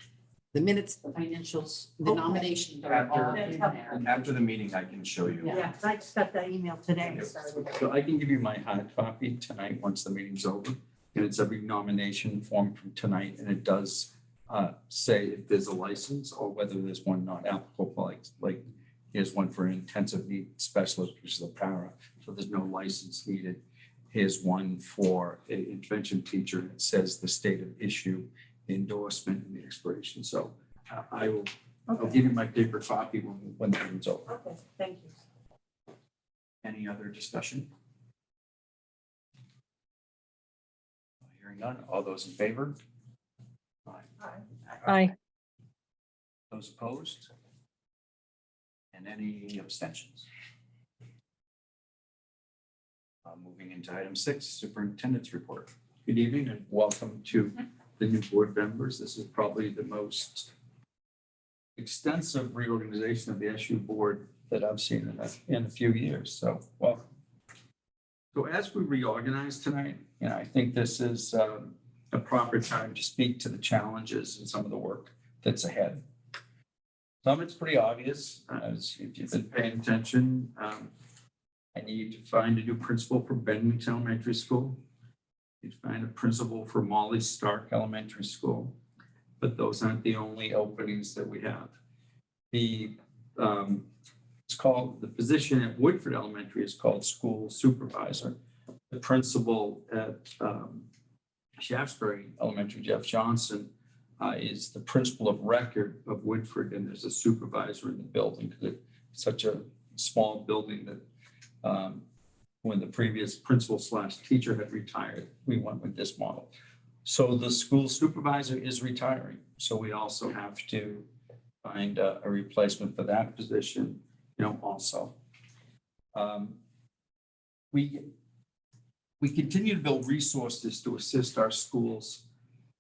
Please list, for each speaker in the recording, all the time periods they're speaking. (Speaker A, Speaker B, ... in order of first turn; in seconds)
Speaker A: 0.5-4.0
Speaker B: 2.0-2.5, 3.3-4.0, 5.5-7.8, 31.9-32.2, 34.3-35.2, 44.2-44.5
Speaker C: 2.9-5.6, 36.6-37.7, 41.3-42.8, 46.5-47.3, 48.9-50.3, 53.2-55.7
Speaker D: 7.1-34.3, 56.1-60.5, 61.8-67.1, 68.3-76.0, 77.2-80.9, 81.8-84.8, 85.6-88.8, 89.4-91.7, 92.5-93.9, 94.5-98.4, 98.9-100.9, 101.6-111.0, 111.6-112.0, 112.6-116.5, 117.0-121.1, 121.6-125.2, 126.1-126.6, 127.7-128.1, 129.2-132.2